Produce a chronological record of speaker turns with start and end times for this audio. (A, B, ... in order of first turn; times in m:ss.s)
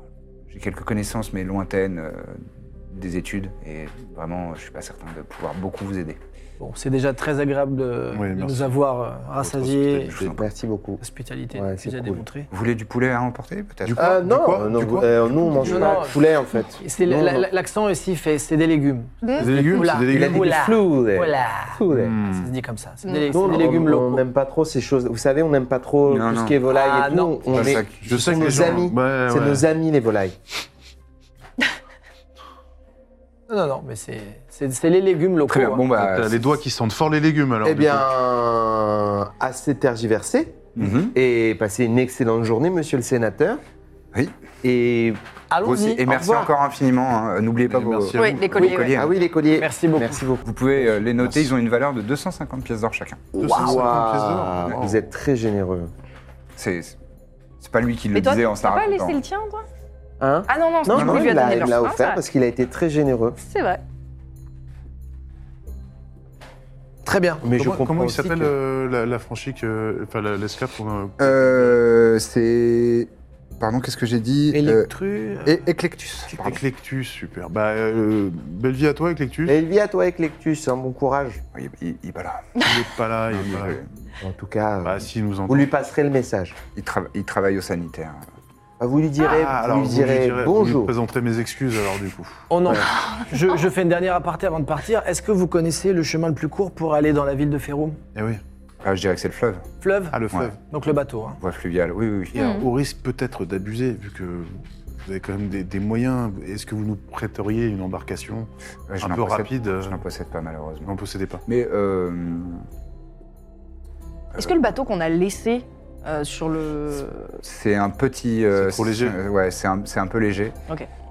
0:00.5-0:06.2 A
0:06.6-0:10.1 B
0:08.1-0:08.7 C
0:09.5-0:10.0 C
0:09.6-0:10.5 A
0:10.2-0:11.0 D
0:11.0-0:12.5 B
0:11.5-0:12.2 D
0:12.5-0:14.1 A
0:13.8-0:15.9 C
0:14.0-0:17.5 D
0:15.6-0:16.2 B
0:16.8-0:24.2 B
0:19.4-0:20.5 C
0:19.9-0:22.2 D
0:21.9-0:22.5 C
0:23.0-0:23.3 E
0:23.3-0:30.4 D
0:26.0-0:26.6 A
0:26.7-0:27.7 B
0:27.5-0:28.7 A
0:28.0-0:29.6 C
0:33.5-0:35.9 B
0:35.5-0:36.4 A
0:36.0-0:38.1 C
0:37.6-0:43.6 D
0:40.8-0:41.2 A
0:44.6-0:45.2 D
0:45.5-0:46.4 B
0:45.6-0:49.1 A
0:46.0-0:46.5 D
0:47.7-0:48.7 C
0:48.2-0:48.9 E
0:48.9-0:51.1 D
0:49.6-0:50.2 B
0:50.4-0:53.3 A
0:53.3-0:55.9 D
0:53.4-0:55.0 C
0:56.6-0:57.0 A
0:57.6-0:59.2 A
0:58.1-0:59.6 E
1:00.2-1:03.4 D
1:00.5-1:02.2 E
1:00.9-1:01.7 A
1:03.4-1:03.8 E
1:07.0-1:07.9 B
1:07.4-1:08.5 D
1:07.6-1:11.8 C
1:11.2-1:14.9 A
1:14.5-1:15.6 B
1:15.4-1:16.6 A
1:16.4-1:19.6 C
1:19.5-1:21.4 D
1:21.5-1:22.8 A
1:22.6-1:23.8 C
1:23.3-1:23.9 A
1:24.2-1:26.6 D
1:24.8-1:25.7 C
1:26.7-1:28.2 A
1:28.8-1:30.9 D
1:29.2-1:32.4 C
1:32.5-1:38.0 B
1:33.1-1:33.4 E
1:38.1-1:38.4 C
1:38.8-1:39.6 A
1:39.8-1:41.4 B
1:40.1-1:40.6 C
1:41.4-1:42.4 A
1:42.3-1:50.0 C
1:42.4-1:42.7 E
1:48.9-1:50.9 A
1:50.8-1:51.4 C
1:51.4-1:52.6 A
1:54.4-1:57.4 E
1:57.4-2:00.6 A
1:58.5-1:59.2 C